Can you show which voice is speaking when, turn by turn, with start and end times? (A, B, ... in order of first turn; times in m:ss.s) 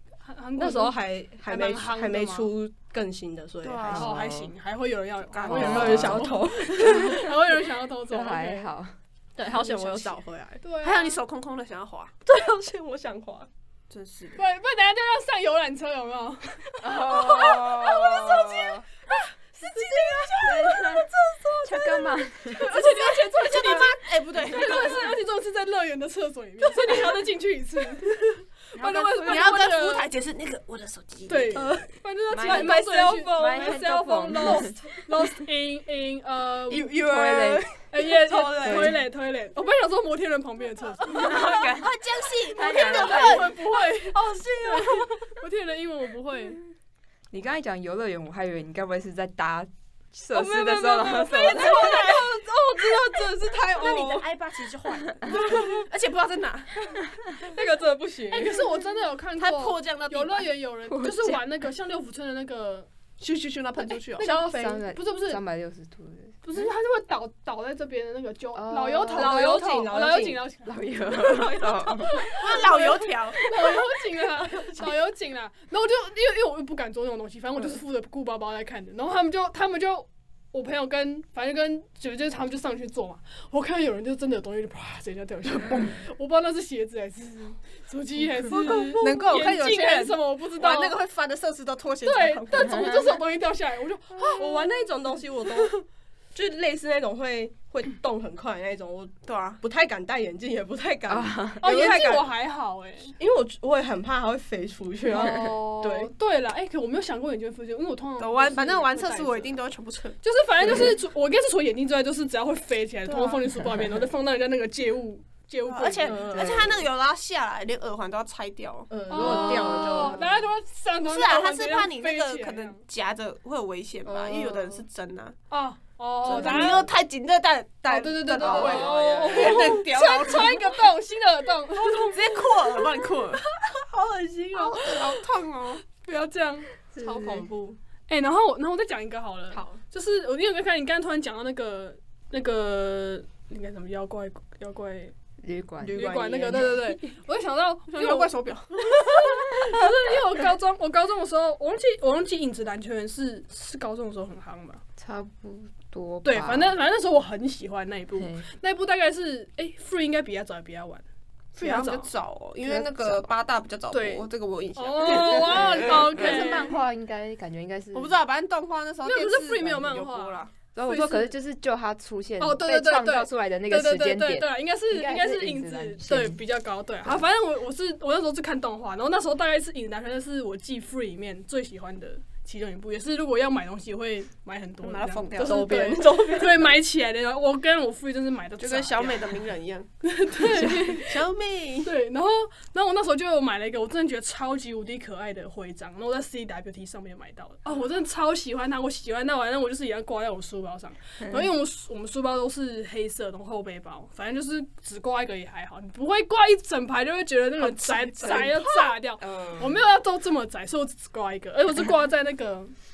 0:00.2-0:02.5 A
0:00.6-0:04.0 B
0:03.6-0:04.1 C
0:03.9-0:04.5 D
0:03.9-0:08.7 A
0:05.3-0:06.3 C
0:05.5-0:06.3 D
0:05.5-0:07.3 B
0:08.1-0:09.0 D
0:09.4-0:10.6 B
0:09.4-0:10.2 C
0:10.6-0:11.2 A
0:10.8-0:12.1 C
0:12.3-0:13.5 B
0:13.9-0:14.4 C
0:14.4-0:17.4 A
0:16.8-0:18.8 D
0:16.8-0:18.8 B
0:19.1-0:20.5 A
0:19.6-0:22.2 B
0:20.4-0:21.1 D
0:21.6-0:22.7 D
0:22.5-0:30.1 A
0:22.7-0:25.1 C
0:28.8-0:31.7 C
0:31.3-0:37.0 A
0:31.6-0:33.9 B
0:32.3-0:34.8 D
0:36.7-0:39.0 B
0:36.9-0:37.6 D
0:37.9-0:41.7 A
0:38.6-0:39.0 D
0:41.1-0:43.7 C
0:41.2-0:43.5 D
0:42.6-0:46.6 A
0:43.8-0:45.3 B
0:47.3-0:52.2 D
0:50.4-0:52.0 A
0:51.1-0:54.3 B
0:51.6-0:52.2 C
0:53.5-0:56.9 C
0:55.3-0:55.9 B
0:57.4-0:58.8 B
0:58.3-1:02.9 A
0:59.4-1:00.6 C
1:00.9-1:01.4 D
1:03.2-1:04.4 C
1:04.2-1:05.4 A
1:04.2-1:04.8 B
1:04.3-1:06.4 D
1:06.4-1:10.8 A
1:08.6-1:09.7 D
1:09.1-1:10.4 B
1:10.6-1:12.3 D
1:11.1-1:13.5 C
1:12.0-1:31.0 A
1:28.5-1:33.0 C
1:28.6-1:29.1 B
1:32.0-1:34.8 A
1:34.2-1:35.8 B
1:36.3-1:42.3 B
1:39.2-1:39.6 C
1:41.1-1:41.9 D
1:41.6-1:43.1 A
1:43.2-1:46.1 B
1:45.1-1:49.6 A
1:48.2-1:50.2 C
1:50.2-1:56.7 A
1:53.1-1:53.4 C
1:55.7-1:59.8 C
1:56.0-1:56.8 B
1:58.9-2:00.3 B
1:59.1-2:02.8 A
2:01.0-2:05.4 C
2:04.0-2:04.8 B
2:05.5-2:06.9 A
2:06.2-2:06.9 B
2:06.2-2:10.7 C
2:07.9-2:12.9 A
2:08.3-2:09.8 B
2:12.1-2:13.4 C
2:13.9-2:14.7 B
2:14.5-2:15.2 A
2:14.5-2:15.8 C
2:15.8-2:16.7 A
2:17.0-2:17.4 D
2:17.0-2:17.8 B
2:18.1-2:25.1 A
2:19.5-2:19.8 B
2:25.4-2:26.9 D
2:25.8-2:27.0 B
2:25.9-2:34.8 A
2:27.9-2:29.0 C
2:35.0-2:36.8 D
2:36.2-2:41.0 A
2:38.2-2:38.5 D
2:41.6-2:46.8 C
2:41.6-2:42.1 A
2:42.7-2:43.3 D
2:43.9-2:46.8 A
2:45.5-2:48.2 D
2:47.9-2:50.5 C
2:49.0-2:51.3 A
2:50.8-2:56.4 D
2:52.4-3:09.3 A
3:04.8-3:05.8 C
3:05.4-3:06.8 B
3:08.6-3:11.9 C
3:10.0-3:11.2 A
3:11.8-3:32.7 A
3:27.8-3:28.4 C
3:28.2-3:28.6 D
3:28.2-3:28.9 B
3:29.2-3:29.8 D